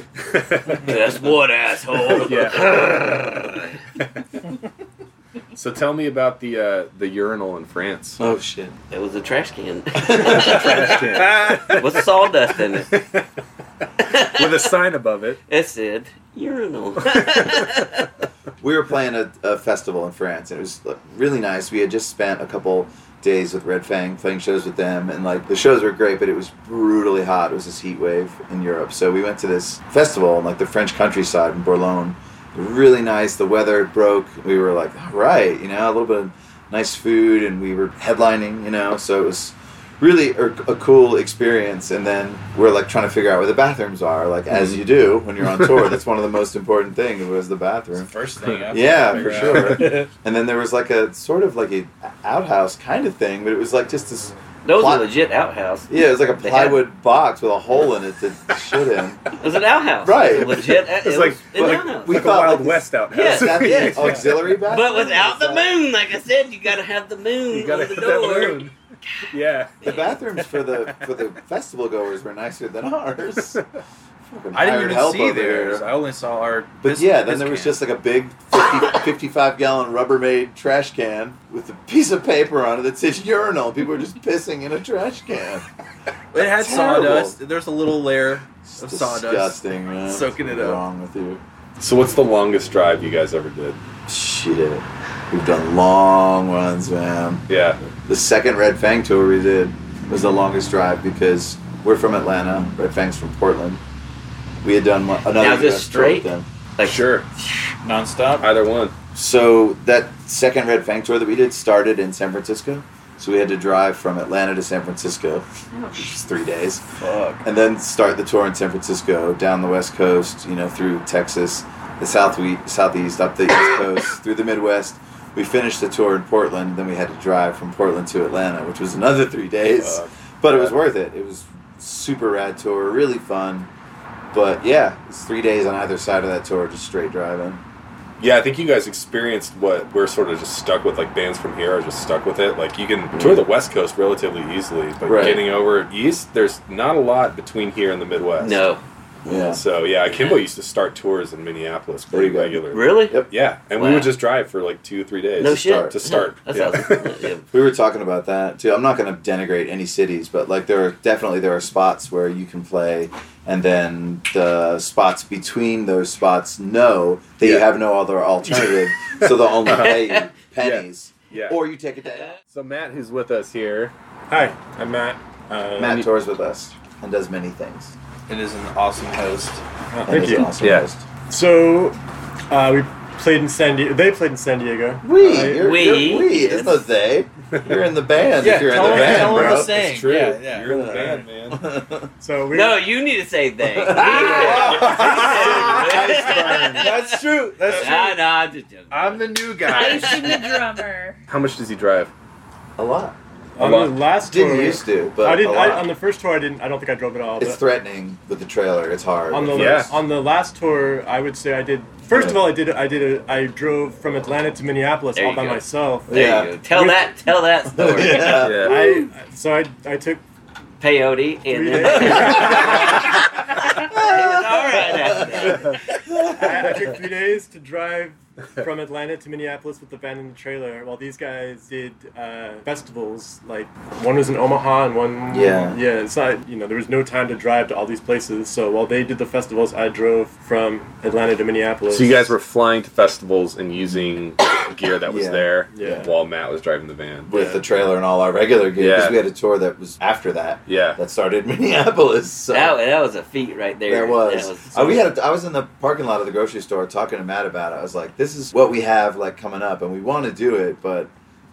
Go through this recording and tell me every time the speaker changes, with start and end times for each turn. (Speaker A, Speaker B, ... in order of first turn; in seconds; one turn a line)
Speaker A: 0.2-0.9
Speaker B: 0.8-3.7
Speaker A: 2.1-3.2
Speaker A: 5.5-8.2
Speaker C: 8.2-8.8
Speaker B: 8.9-12.9
Speaker C: 10.0-11.2
Speaker A: 10.1-12.1
Speaker A: 12.8-13.2
Speaker B: 14.0-14.7
Speaker A: 14.0-15.4
Speaker B: 15.5-18.1
Speaker A: 17.0-17.7
Speaker C: 18.6-48.1
Speaker A: 44.5-44.8
Speaker D: 48.0-50.0
Speaker A: 48.4-50.0
Speaker C: 48.7-55.1
Speaker B: 54.6-56.8
Speaker C: 55.9-59.2
Speaker B: 59.4-62.2
Speaker C: 60.0-60.8
Speaker A: 60.9-64.6
Speaker C: 61.5-65.7
Speaker B: 63.1-68.7
Speaker A: 67.5-68.7
Speaker A: 69.3-69.9
Speaker C: 69.8-73.6
Speaker A: 70.6-70.9
Speaker C: 74.3-75.9
Speaker D: 74.5-77.8
Speaker C: 76.8-85.7
Speaker D: 86.3-90.8
Speaker C: 86.3-87.4
Speaker C: 88.6-91.4
Speaker A: 91.8-93.8
Speaker C: 94.1-97.4
Speaker A: 97.5-97.8
Speaker C: 98.0-103.8
Speaker C: 104.6-106.5
Speaker B: 105.3-107.1
Speaker A: 106.8-107.2
Speaker D: 107.8-108.4
Speaker A: 108.4-108.9
Speaker C: 109.1-116.8
Speaker E: 115.7-116.2
Speaker D: 117.0-117.4
Speaker C: 117.4-133.7
Speaker A: 129.8-130.8
Speaker C: 134.3-137.6
Speaker A: 138.2-148.7
Speaker C: 145.0-145.5
Speaker B: 148.4-149.4
Speaker C: 149.2-149.6
Speaker A: 149.4-157.2
Speaker B: 150.1-150.4
Speaker C: 152.1-153.3
Speaker B: 152.7-153.2
Speaker B: 153.8-154.1
Speaker B: 155.4-157.4
Speaker C: 155.4-156.0
Speaker C: 157.5-172.3
Speaker A: 167.4-167.7
Speaker A: 168.4-170.0
Speaker B: 169.8-170.3
Speaker A: 170.6-171.6
Speaker A: 172.5-173.9
Speaker F: 174.3-176.0
Speaker C: 175.8-177.9
Speaker D: 178.3-179.6
Speaker F: 179.9-180.6
Speaker C: 180.1-181.0
Speaker A: 180.6-180.9
Speaker F: 181.3-182.0
Speaker F: 182.5-186.0
Speaker C: 185.0-189.9
Speaker B: 185.4-186.8
Speaker D: 188.4-191.2
Speaker A: 188.6-191.7
Speaker C: 190.7-192.1
Speaker F: 192.2-192.9
Speaker B: 192.5-200.6
Speaker C: 193.6-197.0
Speaker D: 193.9-198.2
Speaker D: 198.9-200.2
Speaker E: 199.6-201.2
Speaker A: 199.8-200.1
Speaker A: 201.3-202.1
Speaker C: 202.8-203.2
Speaker F: 203.6-207.6
Speaker A: 203.6-204.0
Speaker C: 204.2-205.9
Speaker C: 207.4-210.0
Speaker F: 209.3-217.0
Speaker A: 209.5-210.0
Speaker C: 212.1-212.5
Speaker B: 215.2-218.9
Speaker C: 216.1-216.6
Speaker C: 217.7-218.8
Speaker A: 218.3-218.8
Speaker F: 218.5-220.2
Speaker B: 220.8-225.8
Speaker F: 221.5-223.1
Speaker C: 223.9-225.6
Speaker F: 226.2-242.3
Speaker C: 226.2-226.5
Speaker C: 235.3-235.8
Speaker A: 241.9-247.3
Speaker C: 245.1-246.1
Speaker F: 245.7-246.1
Speaker C: 247.3-252.8
Speaker F: 247.3-247.6
Speaker A: 248.8-249.2
Speaker A: 250.7-251.0
Speaker B: 252.5-254.7
Speaker C: 253.9-261.1